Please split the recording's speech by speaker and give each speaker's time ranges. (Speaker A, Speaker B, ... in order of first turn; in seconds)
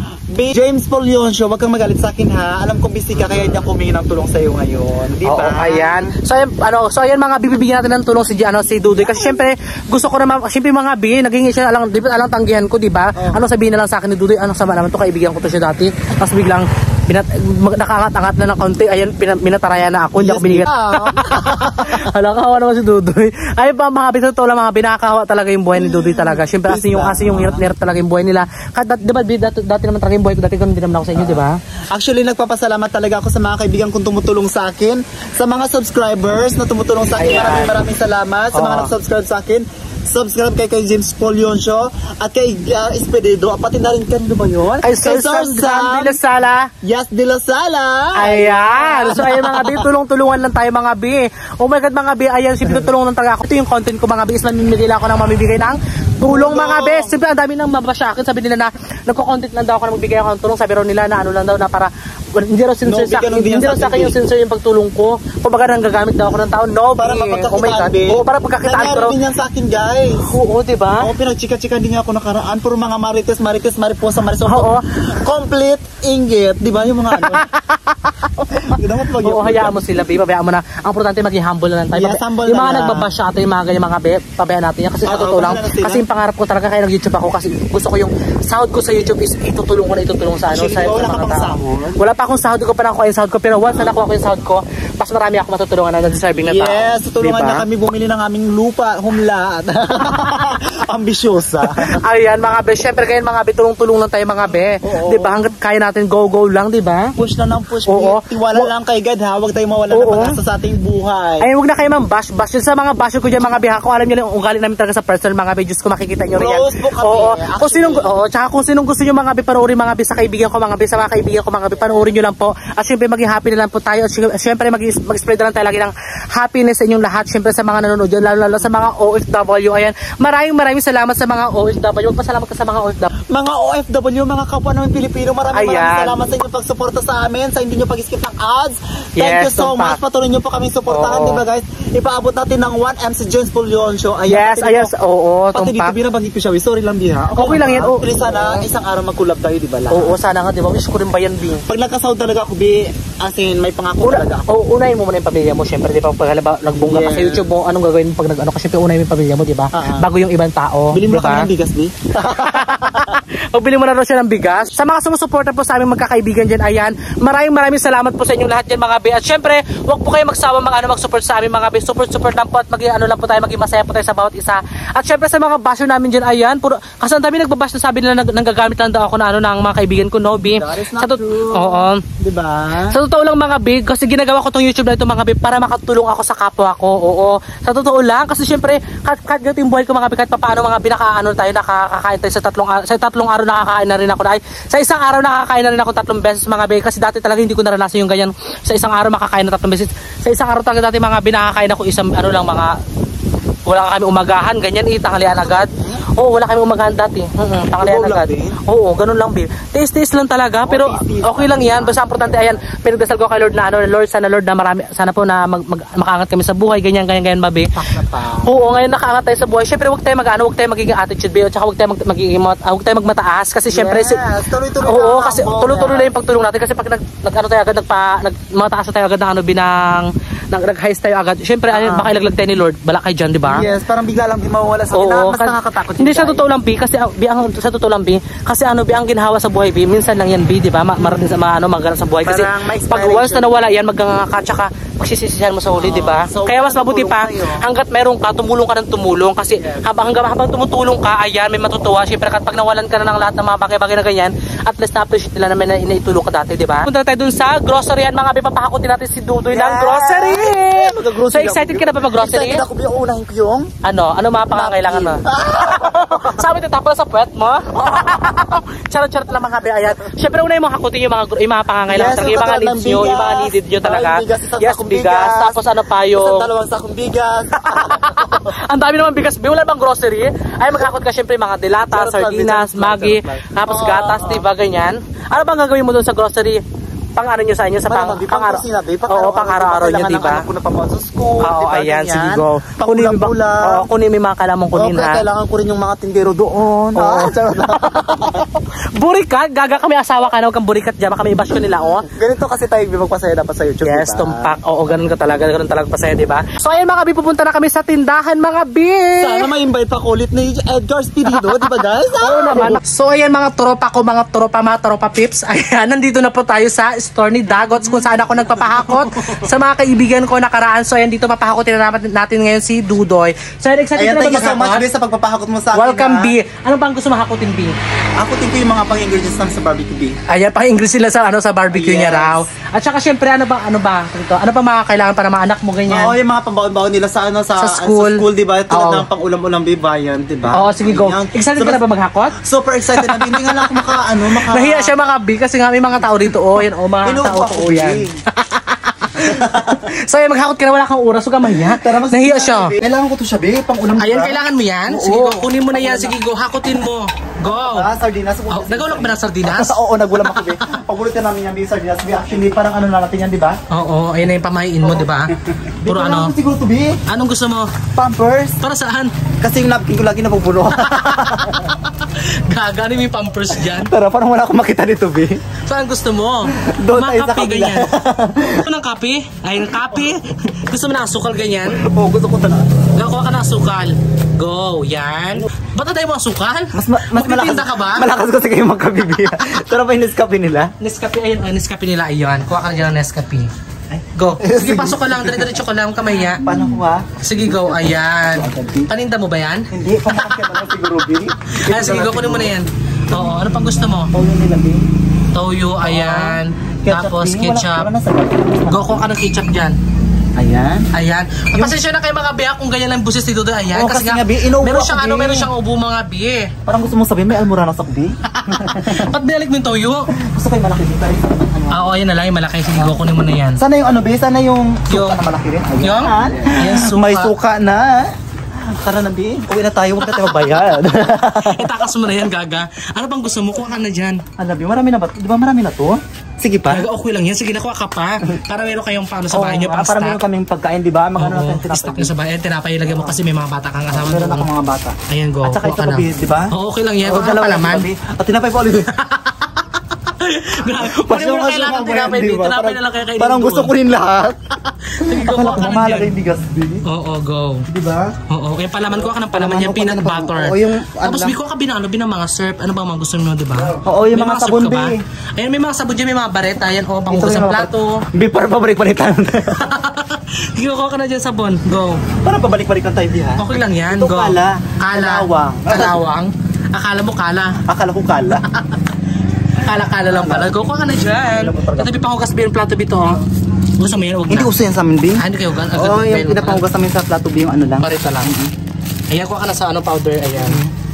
Speaker A: 0.3-6.2, 8.9-9.4, 13.2-13.4, 20.2-22.1, 25.7-27.7, 31.1-46.2, 46.8-49.9, 56.2-57.2, 62.9-64.2, 67.0-70.3, 71.0-77.5, 78.4-79.8, 81.9-83.1, 85.0-86.0, 90.5-92.0, 93.7-94.0, 96.3-102.0, 104.8-105.5, 107.2-111.5, 116.3-118.1, 133.3-144.9, 145.5-150.2, 151.7-154.5, 156.7-157.4, 159.7-160.1, 160.9-163.2, 180.5-183.0, 205.3-206.1, 207.8-208.6, 210.7-212.6, 217.8-218.5, 223.7-226.1, 231.7-232.2, 233.4-236.5, 241.0-241.4, 242.2-243.7, 245.8-247.7, 249.6-249.8, 259.5-263.7, 264.5-266.4, 267.9-268.3, 271.9-278.6, 281.9-284.5, 287.9-293.9, 294.7-298.4, 302.1-304.5, 309.2-312.8, 317.9-319.4, 324.0-326.4, 328.2-330.2, 331.7-332.5, 335.9-341.9, 342.4-345.0, 346.6-348.1, 349.2-349.9, 351.4-356.2, 357.4-363.6, 364.8-367.0, 367.9-368.6, 369.4-371.7, 373.5-375.4, 376.6-378.7, 381.7-382.8, 386.7-390.7, 393.9-395.5, 396.4-398.9, 399.7-402.6, 404.0-404.8, 405.8-409.1, 410.4-410.9, 413.7-415.5, 416.7-419.1, 420.1-422.0, 422.7-423.0, 423.6-428.1, 428.7-431.7, 434.4-436.9, 439.3-442.1, 442.9-443.2, 443.9-446.5, 447.0-448.9, 450.7-454.4, 455.0-456.9, 457.7-458.1, 458.9-461.4, 463.8-465.0, 467.1-469.7, 472.2-476.0, 477.6-478.5, 480.1-480.6, 481.1-481.9, 484.3-488.5, 490.4-490.7
Speaker B: 5.2-31.6, 37.2-37.8, 38.5-38.9, 44.8-46.7, 48.2-69.2, 70.3-71.1, 74.5-74.8, 77.2-78.3, 79.2-97.7, 101.7-107.1, 107.9-108.7, 109.9-110.4, 111.4-133.1, 135.5-136.2, 139.2-140.0, 140.9-141.4, 144.3-145.9, 147.3-148.6, 149.9-151.7, 154.0-161.5, 162.3-182.0, 182.9-202.8, 203.7-217.7, 218.4-224.2, 224.8-233.7, 234.9-262.6, 263.8-276.5, 277.6-286.6, 287.2-290.5, 291.4-295.2, 297.0-302.1, 303.8-309.4, 312.2-324.9, 325.7-327.7, 330.3-336.1, 337.6-339.1, 340.5-342.4, 342.9-352.7, 354.0-357.9, 358.5-360.8, 363.7-365.3, 365.9-366.3, 367.1-367.7, 368.6-369.1, 370.9-373.9, 375.7-377.9, 378.5-381.8, 382.9-388.1, 390.8-393.5, 394.1-396.4, 397.2-399.7, 401.6-404.1, 405.3-407.9, 408.7-409.8, 410.9-416.5, 418.3-420.1, 421.7-423.6, 424.9-425.2, 425.8-427.3, 430.0-430.6, 431.2-434.2, 436.7-440.2, 441.2-444.5, 445.1-447.9, 449.0-449.5, 450.1-453.7, 454.8-456.1, 456.9-457.7, 458.3-468.0, 469.6-472.0, 473.4-477.6, 478.5-478.8, 479.6-483.2, 483.8-484.5, 485.2-486.6, 487.8-488.3, 489.1-490.6